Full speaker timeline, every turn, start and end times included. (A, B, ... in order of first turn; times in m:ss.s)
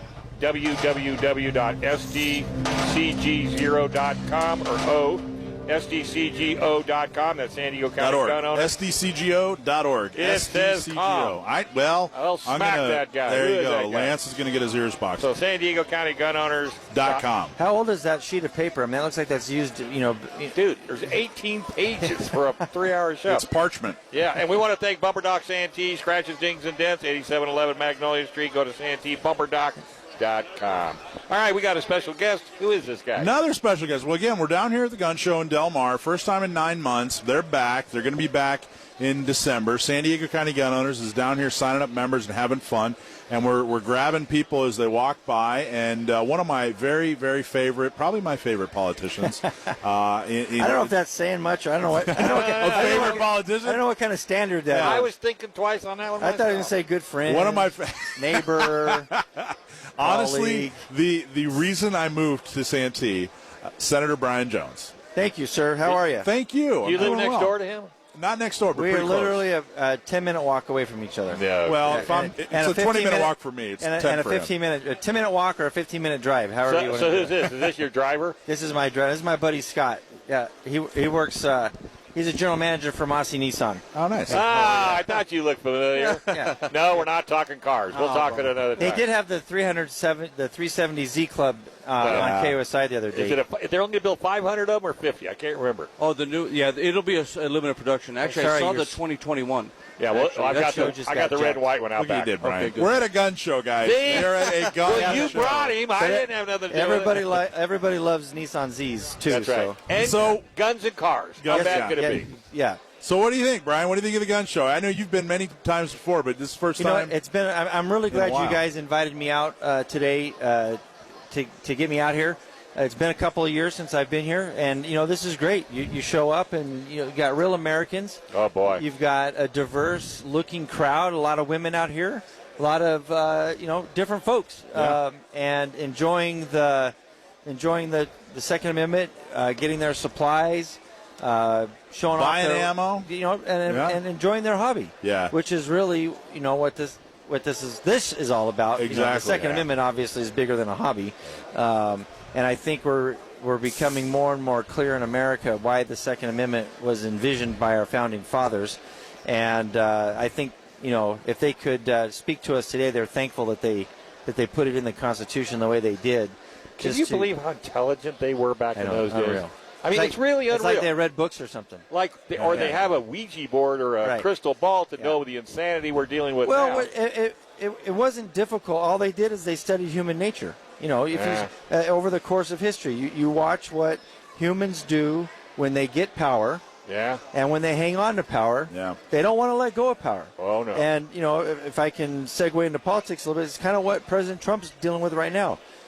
0:00.4-0:08.7 A
0:08.0-0:15.3 B
0:10.1-0:11.4 A
0:12.1-0:14.2 A
0:15.2-0:17.2 A
0:16.9-0:17.6 B
0:17.6-0:20.6 C
0:20.5-0:23.4 A
0:23.3-0:24.0 B
0:24.1-0:33.3 A
0:33.2-0:50.9 B
0:50.6-0:55.1 C
0:52.0-0:53.8 B
0:52.2-0:53.2 A
0:54.7-0:55.0 B
0:54.8-0:56.7 A
0:56.2-0:59.1 C
0:57.2-1:04.9 B
1:00.0-1:00.8 C
1:05.1-1:06.3 C
1:05.9-1:07.5 B
1:06.8-1:07.9 A
1:08.1-1:09.4 B
1:08.7-1:17.4 C
1:11.3-1:12.0 A
1:11.6-1:14.5 B
1:16.6-1:18.4 A
1:18.5-1:23.8 C
1:23.9-1:25.2 B
1:24.3-1:29.0 A
1:26.0-1:27.0 C
1:27.9-1:33.4 C
1:32.0-1:32.4 A
1:32.1-1:32.6 B
1:33.1-1:35.9 A
1:36.0-1:41.0 D
1:38.2-1:39.0 C
1:40.0-1:42.3 A
1:40.5-1:41.6 C
1:42.0-1:45.8 B
1:42.4-1:43.0 D
1:43.8-1:47.4 A
1:44.4-1:49.8 C
1:49.2-1:52.3 A
1:49.9-1:50.4 B
1:51.4-1:52.1 B
1:51.5-1:52.8 C
1:53.0-1:57.1 B
1:56.8-2:08.2 C
1:58.1-1:58.6 B
2:08.3-2:08.8 A
2:08.7-2:16.9 C
2:17.4-2:47.3 C
2:22.1-2:23.1 B
2:23.7-2:24.0 B
2:25.0-2:25.3 B
2:28.8-2:29.7 B
2:46.8-2:50.9 A
2:48.7-2:51.8 C
2:51.9-2:56.9 A
2:52.5-2:52.8 C
2:56.4-3:06.6 C
3:01.1-3:01.5 A
3:06.8-3:07.2 A
3:07.3-3:15.6 C
3:08.7-3:09.0 B
3:10.4-3:10.8 A